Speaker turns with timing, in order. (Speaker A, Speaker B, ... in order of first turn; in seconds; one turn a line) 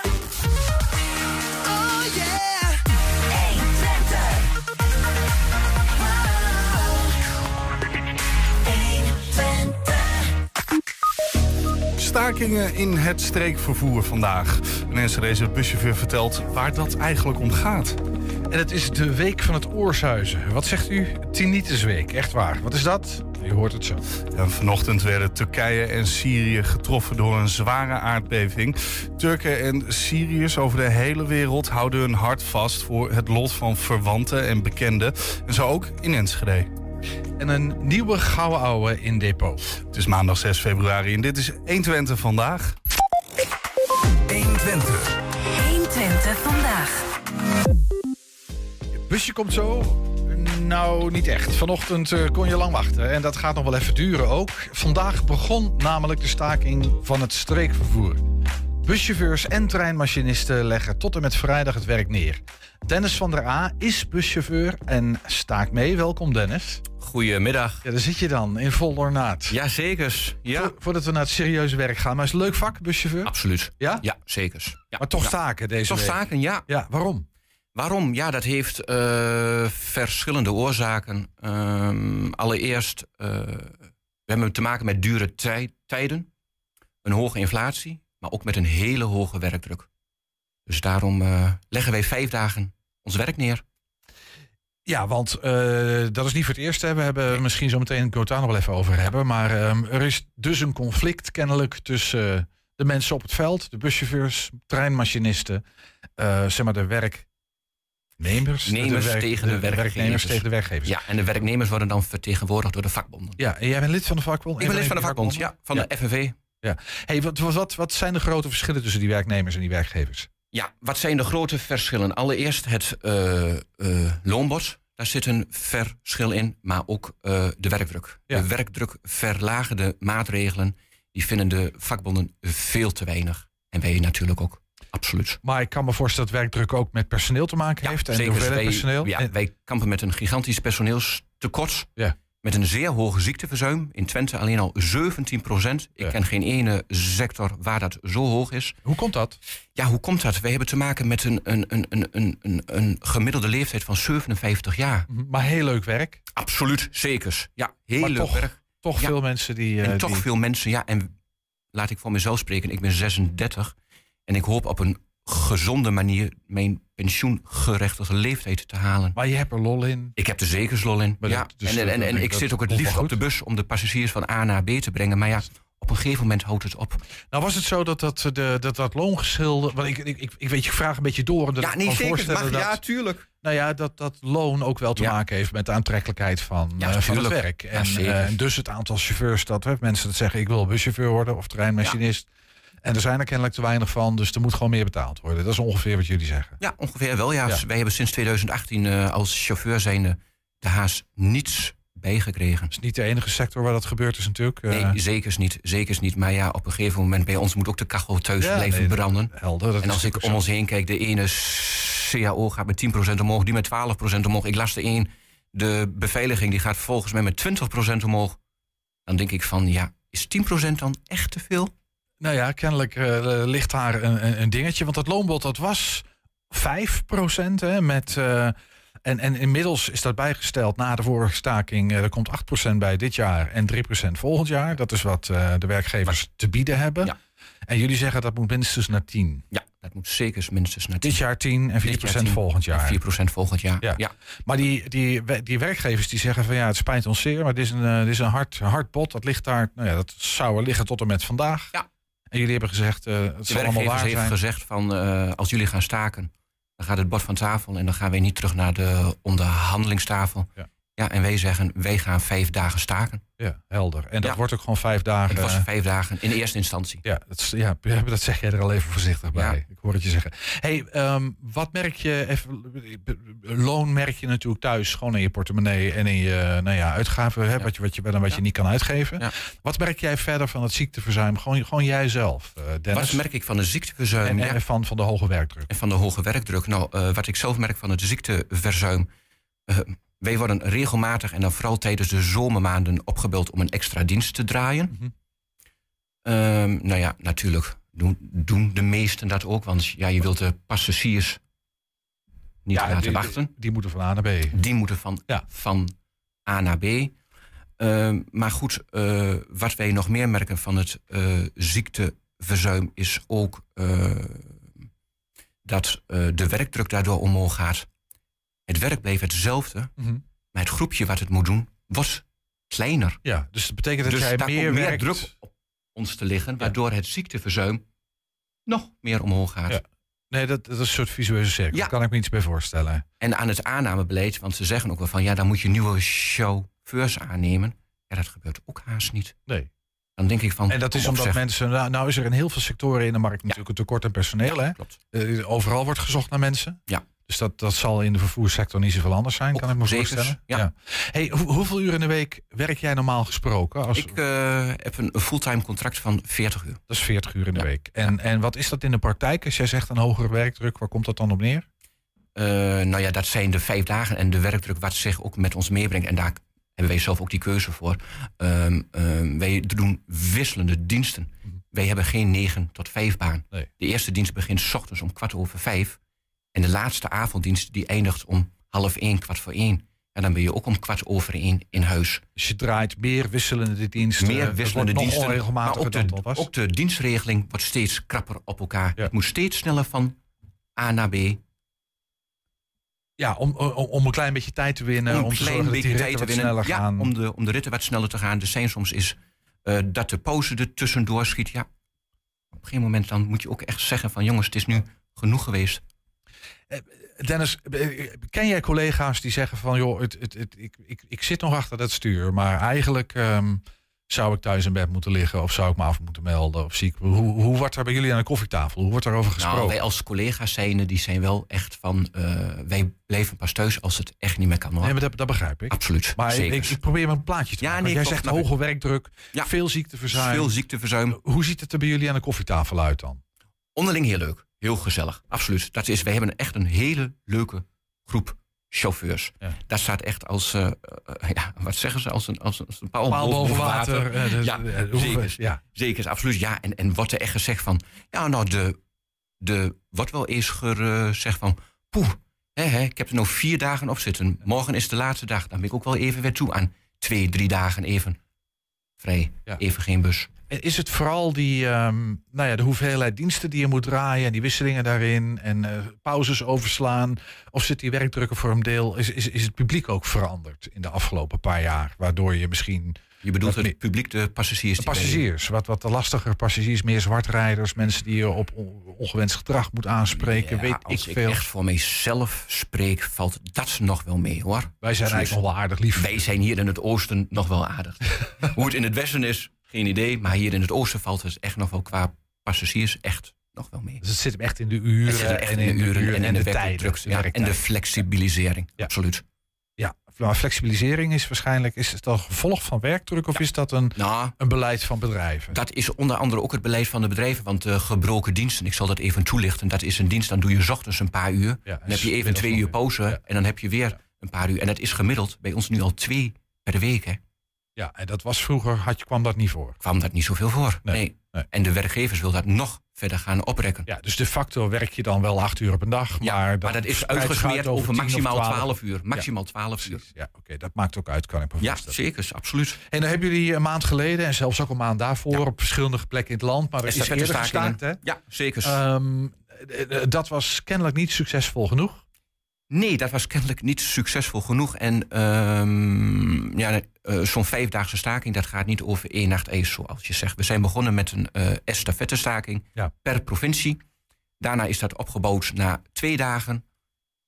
Speaker A: 1.9-2.2
Speaker A: 3.5-4.1
Speaker A: 8.8-9.9
Speaker B: 12.0-18.0
Speaker C: 18.5-24.0
Speaker B: 24.3-36.7
Speaker C: 37.4-39.8
Speaker B: 39.9-42.8
Speaker B: 44.3-45.0
Speaker A: 45.4-47.1
Speaker C: 49.0-58.2
Speaker C: 58.8-66.8
Speaker D: 67.0-67.8
Speaker C: 67.8-69.6
Speaker D: 69.5-70.8
Speaker C: 70.5-74.0
Speaker D: 73.2-76.7
Speaker C: 75.0-77.3
Speaker D: 77.8-86.3
Speaker D: 87.0-89.9
Speaker D: 90.7-93.6
Speaker C: 94.9-105.6
Speaker C: 106.2-107.3
Speaker C: 108.2-110.9
Speaker D: 108.7-113.4
Speaker C: 113.4-115.9
Speaker D: 114.6-116.4
Speaker C: 116.6-120.3
Speaker D: 120.5-135.4
Speaker C: 135.4-139.3
Speaker D: 137.8-141.9
Speaker D: 142.4-148.8
Speaker C: 148.8-149.4
Speaker D: 149.8-155.1
Speaker C: 155.1-156.2
Speaker D: 156.3-159.2
Speaker C: 158.0-160.3
Speaker D: 159.8-161.1
Speaker D: 161.7-163.7
Speaker D: 164.3-169.2
Speaker C: 169.2-170.2
Speaker D: 170.2-177.0
Speaker C: 171.2-173.2
Speaker C: 177.3-182.8
Speaker D: 181.6-183.3
Speaker C: 183.4-192.3
Speaker D: 186.8-188.4
Speaker C: 192.8-196.6
Speaker D: 196.6-202.7
Speaker C: 202.7-205.0
Speaker D: 204.7-218.4
Speaker C: 208.4-210.4
Speaker D: 219.1-221.7
Speaker C: 222.2-237.1
Speaker C: 237.7-239.4
Speaker D: 239.5-241.2
Speaker C: 241.0-243.0
Speaker D: 241.8-244.1
Speaker C: 243.8-251.7
Speaker C: 252.3-254.3
Speaker D: 253.5-263.2
Speaker C: 263.4-265.7
Speaker D: 265.3-267.0
Speaker C: 267.0-283.2
Speaker D: 269.3-269.6
Speaker D: 282.9-284.6
Speaker C: 284.2-285.7
Speaker D: 285.7-289.1
Speaker D: 289.7-294.9
Speaker D: 296.2-301.4
Speaker D: 302.6-303.5
Speaker C: 302.7-304.6
Speaker D: 304.5-305.9
Speaker D: 306.5-307.1
Speaker D: 307.8-314.7
Speaker D: 315.6-317.9
Speaker D: 318.7-319.9
Speaker D: 320.5-323.2
Speaker C: 323.2-325.3
Speaker D: 324.1-327.8
Speaker D: 328.7-329.8
Speaker C: 329.7-333.1
Speaker D: 333.2-339.4
Speaker D: 340.2-341.4
Speaker C: 340.7-354.2
Speaker D: 344.4-345.0
Speaker D: 349.6-350.7
Speaker D: 353.9-356.8
Speaker C: 356.9-361.6
Speaker D: 357.5-358.1
Speaker D: 362.4-376.0
Speaker D: 376.5-382.2
Speaker C: 382.4-386.5
Speaker D: 384.2-390.2
Speaker D: 390.8-391.4
Speaker C: 393.2-397.1
Speaker D: 395.1-401.7
Speaker D: 402.5-405.8
Speaker C: 406.7-419.8
Speaker D: 419.4-425.0
Speaker C: 424.8-430.5
Speaker D: 425.7-426.8
Speaker D: 427.6-428.5
Speaker D: 430.1-431.2
Speaker C: 431.1-433.2
Speaker D: 433.8-448.8
Speaker C: 443.1-445.6
Speaker D: 449.4-458.2
Speaker D: 459.0-460.3
Speaker C: 460.5-473.8
Speaker D: 473.2-475.2
Speaker C: 474.8-481.4
Speaker D: 480.1-485.4
Speaker C: 484.8-486.2
Speaker D: 485.9-494.0
Speaker C: 494.0-497.6
Speaker D: 495.1-499.2
Speaker C: 499.8-505.6
Speaker D: 503.9-504.4
Speaker D: 505.5-517.2
Speaker C: 511.7-513.2
Speaker C: 517.8-519.8
Speaker D: 519.8-523.9
Speaker C: 520.9-521.5
Speaker C: 523.9-529.3
Speaker D: 526.2-530.0
Speaker C: 529.8-532.0
Speaker D: 531.6-532.8
Speaker C: 532.9-538.0
Speaker D: 536.9-538.8
Speaker C: 538.6-542.0
Speaker D: 542.7-553.8
Speaker D: 554.4-556.6